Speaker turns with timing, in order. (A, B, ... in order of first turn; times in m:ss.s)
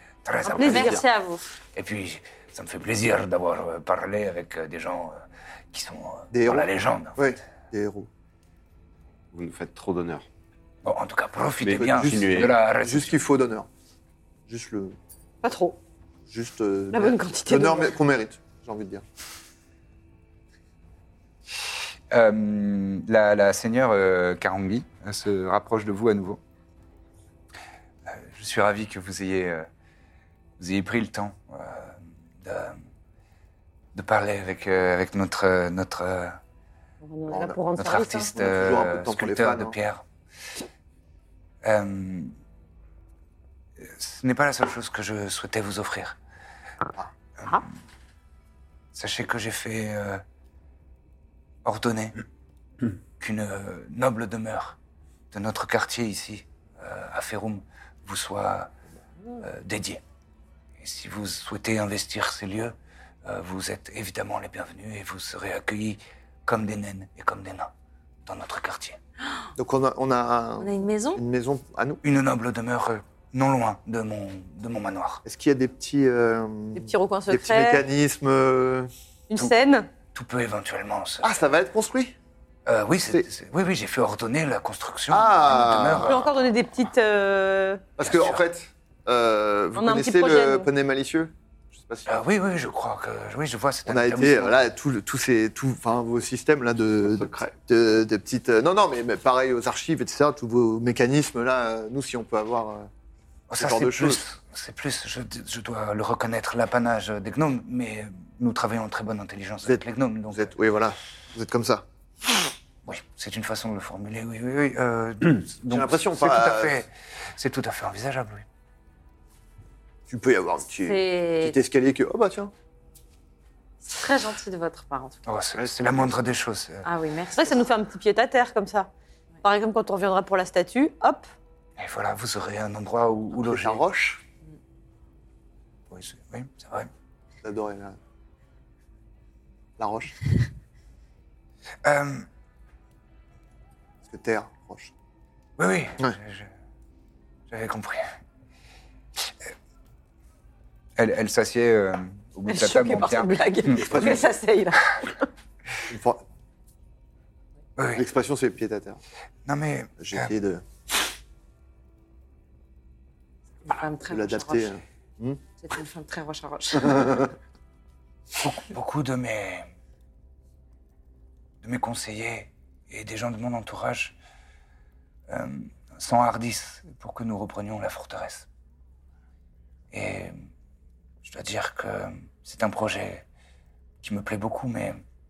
0:00.2-0:01.0 A
0:00.4-0:01.0 B
0:00.6-0:01.6 C
0:00.7-0:01.0 D
0:01.7-0:07.4 A
0:06.3-0:08.1 E
0:09.3-0:10.2 D
0:10.8-0:13.2 A
0:11.6-0:12.5 D
0:11.9-0:13.7 E
0:14.5-0:15.0 E
0:15.4-0:15.8 B
0:16.3-0:19.0 E
0:16.9-0:17.9 B
0:22.1-0:26.4 A
0:28.0-0:29.7 A
0:30.6-0:32.8 A
0:33.9-0:36.4 A
0:37.0-0:38.3 B
0:37.3-0:37.6 E
0:37.8-0:40.0 A
0:38.4-0:39.8 E
0:41.6-0:42.4 A
0:43.8-0:46.2 A
0:47.4-0:47.6 A
0:48.9-0:50.2 A
0:51.6-0:52.2 A
0:53.2-0:54.8 A
0:55.3-0:58.7 A
0:59.4-1:00.0 A
1:00.8-1:07.7 A
1:08.2-1:09.0 A
1:09.6-1:12.0 E
1:10.6-1:11.2 C
1:12.0-1:15.2 A
1:15.2-1:18.9 E
1:16.7-1:17.9 B
1:19.3-1:19.9 B
1:20.1-1:21.4 A
1:21.2-1:22.1 E
1:22.6-1:26.3 A
1:25.1-1:26.2 E
1:26.0-1:27.8 B
1:28.0-1:32.1 E
1:28.0-1:28.4 A
1:29.7-1:30.7 B
1:32.0-1:34.6 A
1:33.9-1:42.9 E
1:37.0-1:37.5 D
1:43.5-1:50.5 A
1:43.5-1:44.2 E
1:49.6-1:51.8 E
1:52.8-1:58.4 A
1:55.7-1:56.8 E
2:00.1-2:02.5 E
2:00.8-2:01.6 C
2:03.8-2:05.2 C
2:05.2-2:06.9 A
2:06.8-2:07.7 C
2:07.4-2:08.9 B
2:09.4-2:11.3 B
2:11.8-2:13.9 A
2:13.4-2:14.2 E
2:15.9-2:16.9 A
2:17.4-2:18.0 E
2:19.8-2:20.3 E
2:21.8-2:22.3 A
2:24.0-2:24.9 E
2:25.6-2:26.5 A
2:27.5-2:28.1 A
2:31.0-2:34.2 A
2:32.5-2:35.2 B
2:33.9-2:34.2 E
2:35.9-2:36.2 E
2:37.8-2:38.0 A
2:38.0-2:39.0 E
2:39.4-2:40.3 A
2:40.0-2:40.6 E
2:43.6-2:44.7 C
2:44.1-2:45.4 E
2:45.6-2:47.3 C
2:48.4-2:49.7 A
2:51.6-2:54.2 A
2:55.3-2:58.5 A
2:59.9-3:00.5 A
3:01.2-3:03.2 A
3:04.0-3:05.0 A